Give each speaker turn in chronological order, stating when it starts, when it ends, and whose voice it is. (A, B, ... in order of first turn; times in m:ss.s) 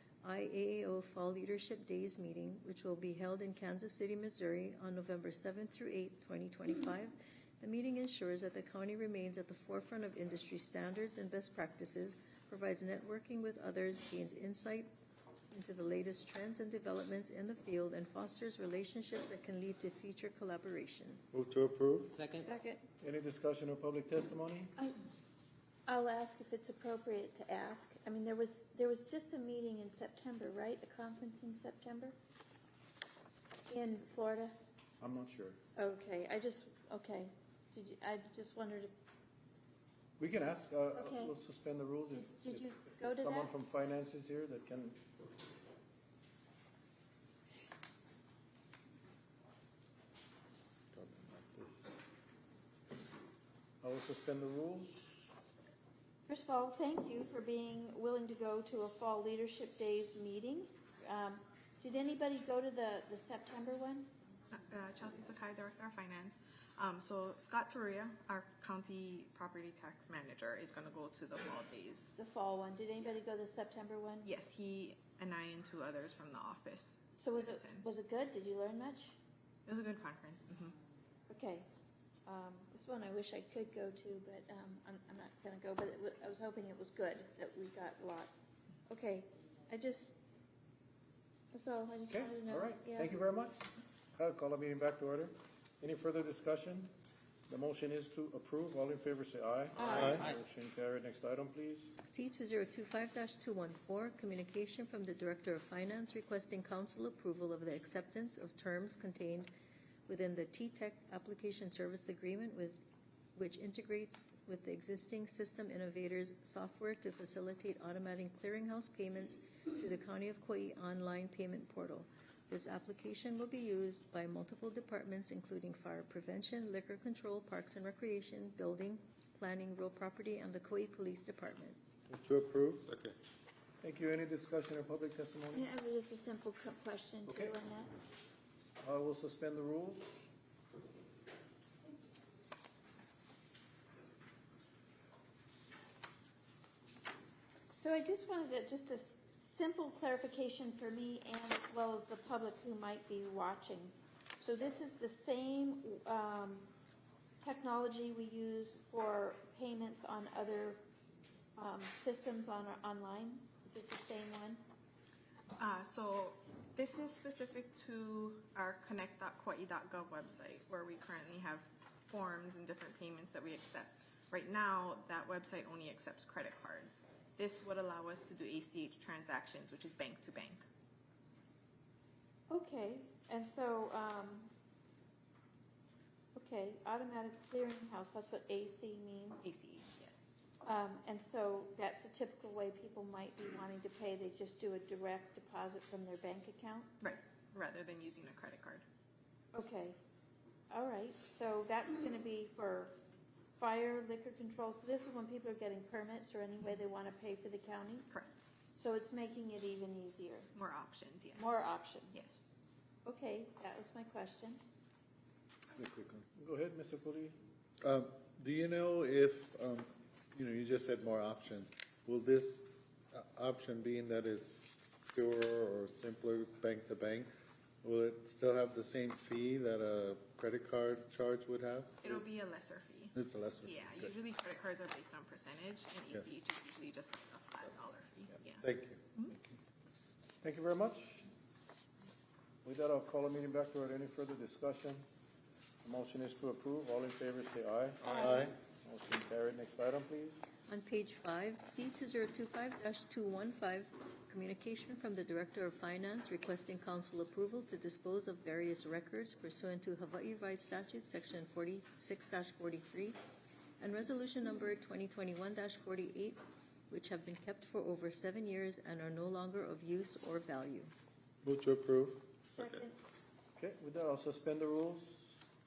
0:00.2-0:21.2 A
0:21.3-0:22.2 B
0:22.4-0:22.8 C
0:23.0-0:24.7 D
0:25.9-0:32.1 C
0:33.7-0:34.5 C
0:35.0-0:35.6 D
0:35.8-0:38.9 C
0:40.2-0:45.0 D
0:40.9-0:41.4 C
0:42.1-0:43.5 C
0:50.9-0:51.9 B
0:53.8-0:55.3 D
0:56.3-1:04.1 C
1:04.5-1:12.1 E
1:12.2-1:14.3 C
1:14.2-1:17.8 E
1:17.2-1:19.2 C
1:19.6-1:20.7 E
1:21.3-1:21.7 C
1:22.2-1:28.3 C
1:28.9-1:30.2 C
1:31.5-1:33.2 C
1:32.1-1:36.9 D
1:37.5-1:41.9 D
1:39.9-1:40.2 B
1:42.0-1:49.5 A
1:50.1-1:52.8 A
1:53.3-2:11.8 A
2:12.1-2:13.0 B
2:13.8-2:15.7 D
2:15.5-2:17.9 C
2:17.3-2:17.5 D
2:18.8-2:20.3 D
2:27.7-2:36.7 C
2:37.4-2:40.8 C
2:41.6-2:44.6 C
2:45.6-3:00.6 E
3:02.5-3:04.5 C
3:06.3-3:09.5 C
3:09.4-3:10.3 E
3:10.6-3:16.9 C
3:17.0-3:18.8 E
3:19.5-3:20.0 C
3:20.7-3:23.0 C
3:23.6-3:28.1 C
3:28.7-3:30.5 C
3:30.5-3:31.5 E
3:31.3-3:32.2 C
3:32.1-3:32.4 E
3:33.0-3:34.6 C
3:35.7-3:36.2 B
3:36.3-3:37.4 D
3:37.8-3:47.3 B
3:47.8-3:52.2 B
3:52.0-3:58.6 E
3:53.1-3:54.1 B
3:58.5-3:59.6 B
4:00.4-4:01.2 D
4:02.6-4:05.0 D
4:05.8-4:08.2 D
4:08.1-4:08.5 C
4:08.1-4:08.5 B
4:08.8-4:10.5 D
4:10.7-4:23.2 A
4:23.8-4:30.9 A
4:31.4-4:32.3 B
4:32.5-4:32.9 C
4:33.6-4:35.4 D